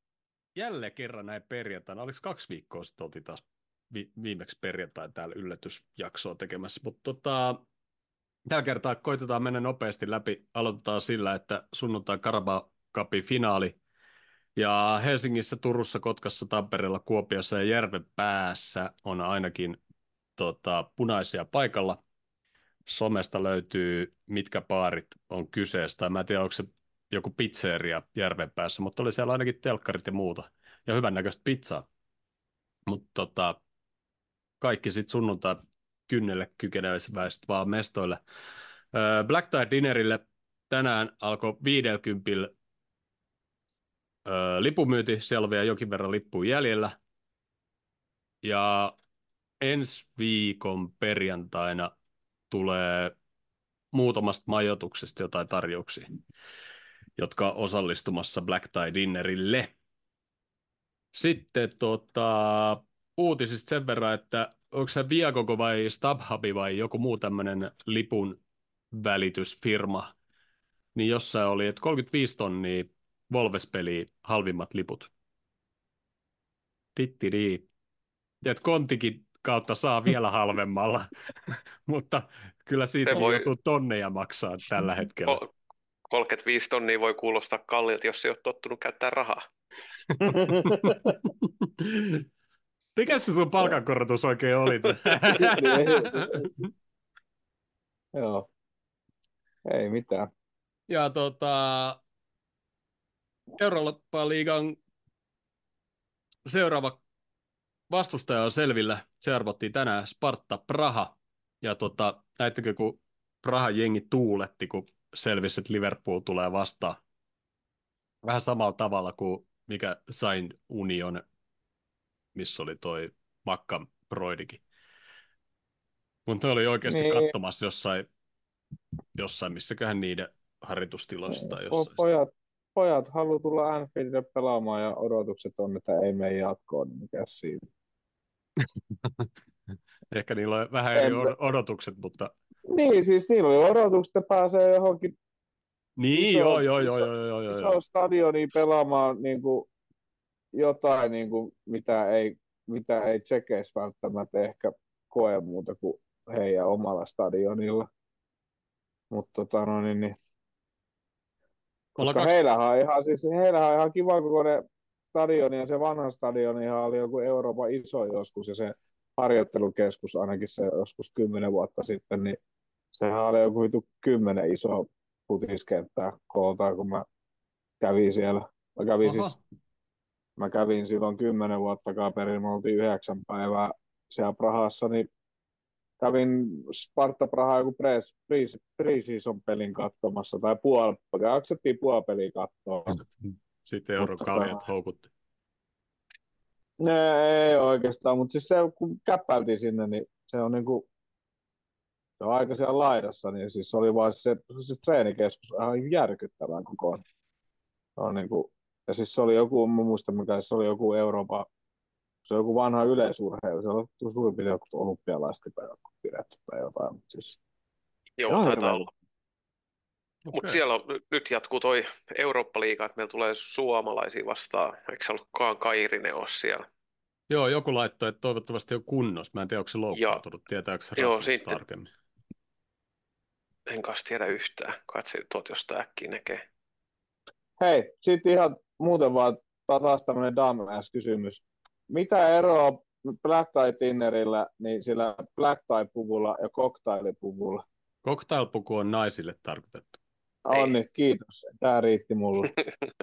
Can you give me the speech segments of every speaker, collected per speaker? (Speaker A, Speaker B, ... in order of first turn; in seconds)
Speaker A: 0.5-7.6, 8.5-13.8, 14.6-19.8, 20.4-22.0, 22.9-31.9, 32.9-33.6, 34.6-38.2, 38.9-42.5, 44.2-47.0, 48.4-48.9, 49.6-51.9, 52.5-53.1, 53.9-56.1, 57.2-59.7, 61.1-68.4, 68.9-70.1, 70.9-75.1, 76.9-77.7, 78.4-85.4, 90.1-92.2, 93.0-96.7, 100.9-102.0, 103.6-104.8, 106.5-107.0, 107.9-117.0, 118.2-121.2, 122.3-124.6, 126.2-128.1, 129.1-132.1, 140.1-142.3, 146.0-147.8, 162.0-162.3, 179.0-179.4, 192.9-195.1, 220.2-220.6, 227.3-231.9, 248.0-250.0
Speaker B: 83.0-83.5, 86.1-89.4, 218.2-218.9, 220.3-226.7, 229.9-230.2, 231.0-231.6, 233.7-236.4, 250.5-250.8
Speaker C: 90.3-91.1, 95.3-96.5, 98.1-98.5, 99.7-100.3, 126.9-127.3, 131.3-137.6, 140.9-141.3, 142.7-145.1, 146.1-149.7, 150.5-157.9, 159.1-160.2, 161.9-172.4, 172.9-177.0, 177.8-179.3, 180.4-185.1, 186.0-193.0, 194.0-194.6, 196.8-200.8, 202.2-207.0, 208.0-211.5, 212.2-217.4, 218.3-218.9, 237.6-247.6, 250.4-252.5